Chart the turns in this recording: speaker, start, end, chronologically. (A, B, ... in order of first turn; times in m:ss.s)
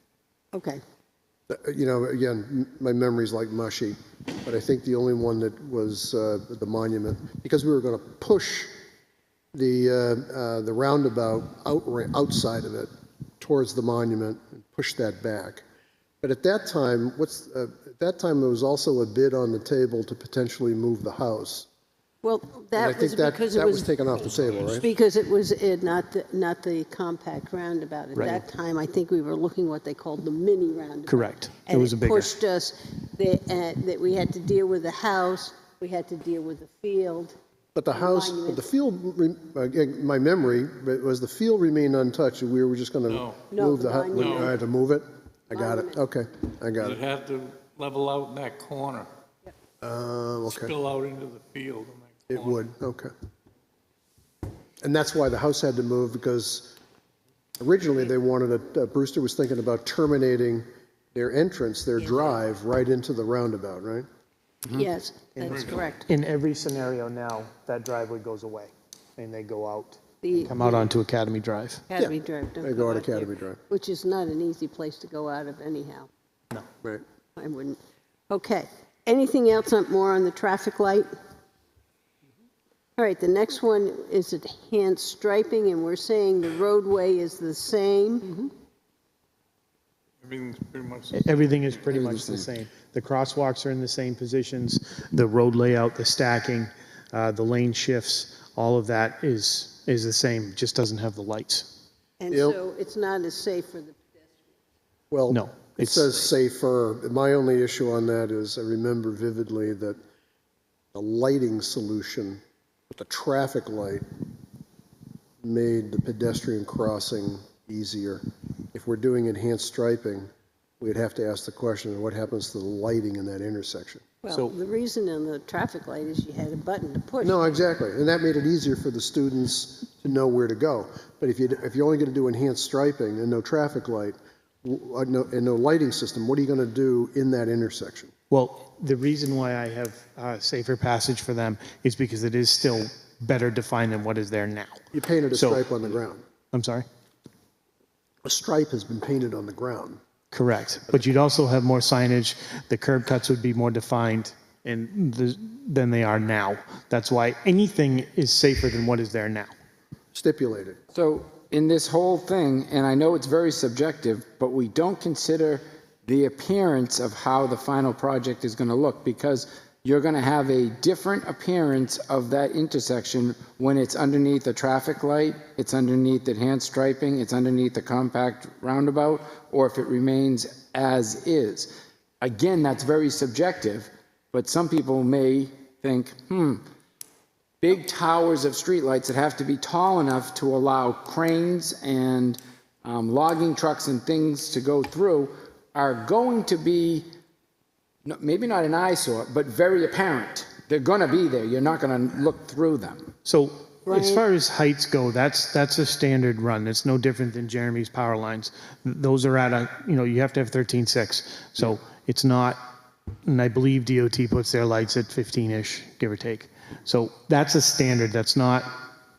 0:00.5-0:00.8 A
0:01.5-0:08.7 B
0:09.5-0:15.6 B
0:16.2-0:21.7 B
0:22.2-0:24.0 A
0:22.7-0:24.8 B
0:24.7-0:37.3 A
0:28.1-0:28.4 C
0:31.1-0:32.3 C
0:37.7-0:47.0 B
0:37.9-0:38.6 A
0:43.1-0:43.4 D
0:43.5-0:44.5 A
0:44.1-0:44.5 D
0:45.5-0:46.0 A
0:46.8-0:49.1 D
0:49.8-0:50.7 B
0:50.5-0:52.6 D
0:52.3-0:53.1 B
0:54.8-0:56.7 B
0:57.6-1:04.0 B
1:04.7-1:06.1 A
1:05.4-1:05.8 D
1:06.1-1:11.8 C
1:10.2-1:10.8 A
1:11.9-1:16.1 A
1:12.0-1:13.6 B
1:17.4-1:17.8 A
1:18.3-1:21.1 A
1:23.0-1:28.5 A
1:30.2-1:31.4 D
1:31.1-1:41.7 C
1:31.9-1:32.5 E
1:42.2-1:44.6 A
1:42.3-1:42.6 B
1:45.1-1:50.0 B
1:45.3-1:46.2 C
1:50.9-1:54.0 B
1:55.4-2:00.3 B
2:00.8-2:04.0 B
2:04.2-2:07.4 A
2:04.3-2:04.5 C
2:07.2-2:18.1 B
2:18.3-2:25.8 C
2:24.9-2:26.2 B
2:26.5-2:26.8 C
2:28.2-2:30.0 B
2:30.3-2:39.5 C
2:40.1-2:40.8 B
2:40.9-3:06.6 E
3:07.6-3:17.0 E
3:18.0-3:23.1 E
3:23.2-3:32.6 C
3:23.9-3:24.2 A
3:33.2-3:38.8 C